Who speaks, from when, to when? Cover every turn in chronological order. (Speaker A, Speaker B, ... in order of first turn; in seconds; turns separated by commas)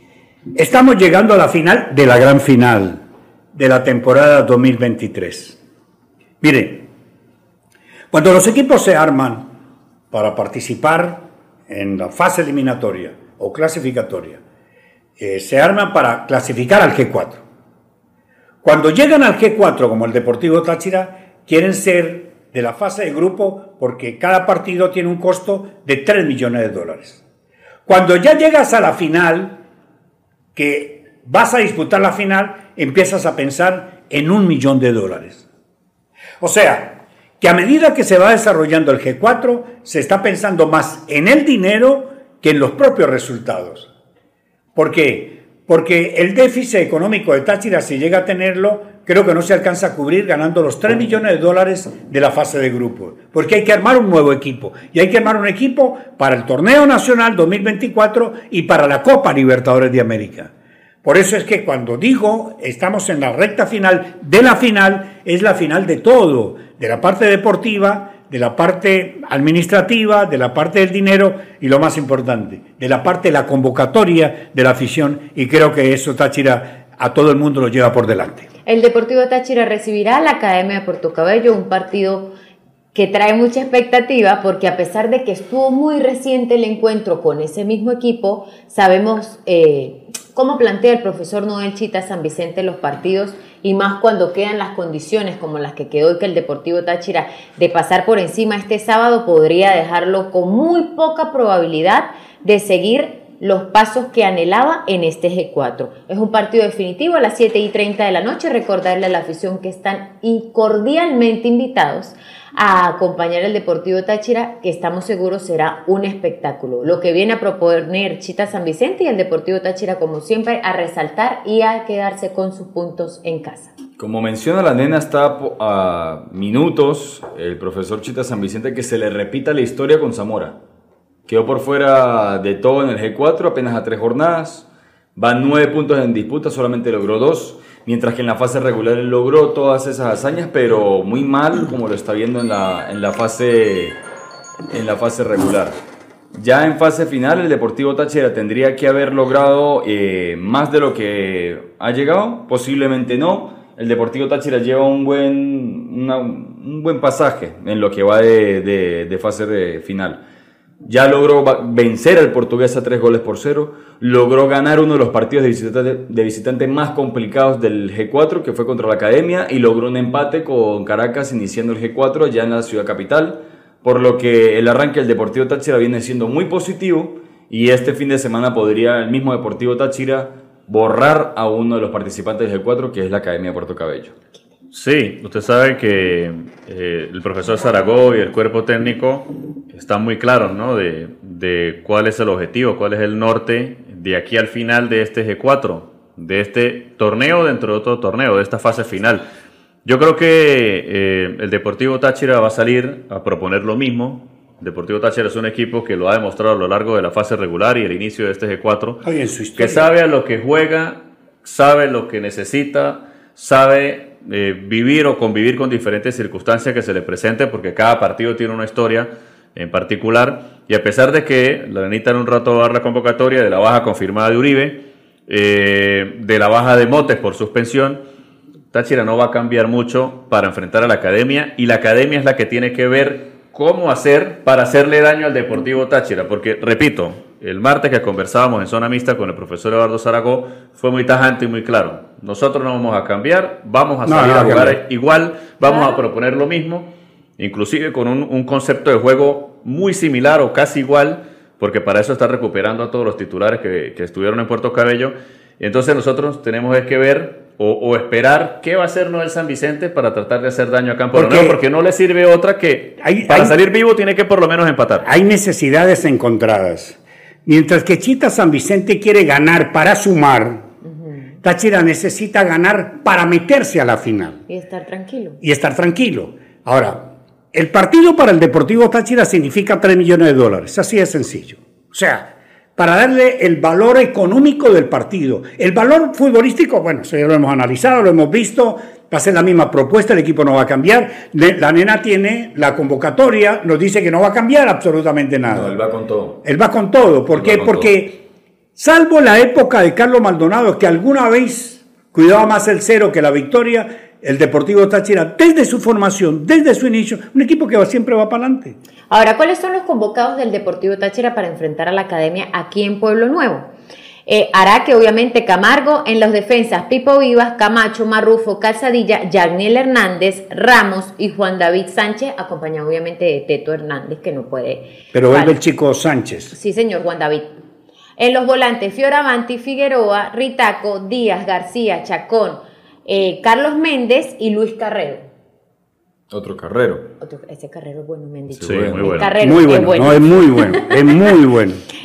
Speaker A: 0.6-3.0, Speaker A: 3.5-5.6, Speaker A: 6.4-6.9, Speaker A: 8.1-9.5, Speaker A: 10.1-14.4, Speaker A: 15.2-17.4, Speaker A: 18.6-27.2, Speaker A: 27.9-29.6, Speaker A: 30.5-35.5, Speaker A: 36.4-43.9, Speaker A: 44.8-60.5, Speaker A: 61.0-78.5, Speaker B: 78.7-82.3, Speaker B: 82.9-123.7, Speaker C: 124.0-130.6, Speaker C: 131.2-144.0, Speaker C: 144.7-145.8, Speaker C: 146.3-160.2, Speaker C: 160.8-184.1, Speaker D: 184.7-199.2, Speaker D: 199.8-209.0, Speaker A: 209.0-209.9, Speaker D: 209.6-228.0, Speaker D: 228.7-265.1, Speaker A: 244.0-244.8, Speaker B: 245.7-245.9, Speaker A: 261.1-261.6, Speaker A: 263.0-263.6, Speaker A: 265.0-270.7, Speaker B: 270.8-271.2, Speaker A: 271.4-274.4, Speaker B: 274.5-275.4, Speaker A: 275.4-295.7, Speaker C: 295.5-296.4, Speaker A: 296.4-298.2, Speaker C: 297.3-297.9, Speaker A: 298.8-308.8, Speaker B: 309.1-313.7, Speaker B: 314.2-325.6, Speaker A: 325.1-326.5, Speaker B: 326.5-327.5, Speaker B: 328.2-335.2, Speaker C: 336.3-337.1, Speaker B: 337.2-341.3, Speaker C: 338.5-339.2, Speaker D: 338.6-339.3, Speaker A: 339.4-341.8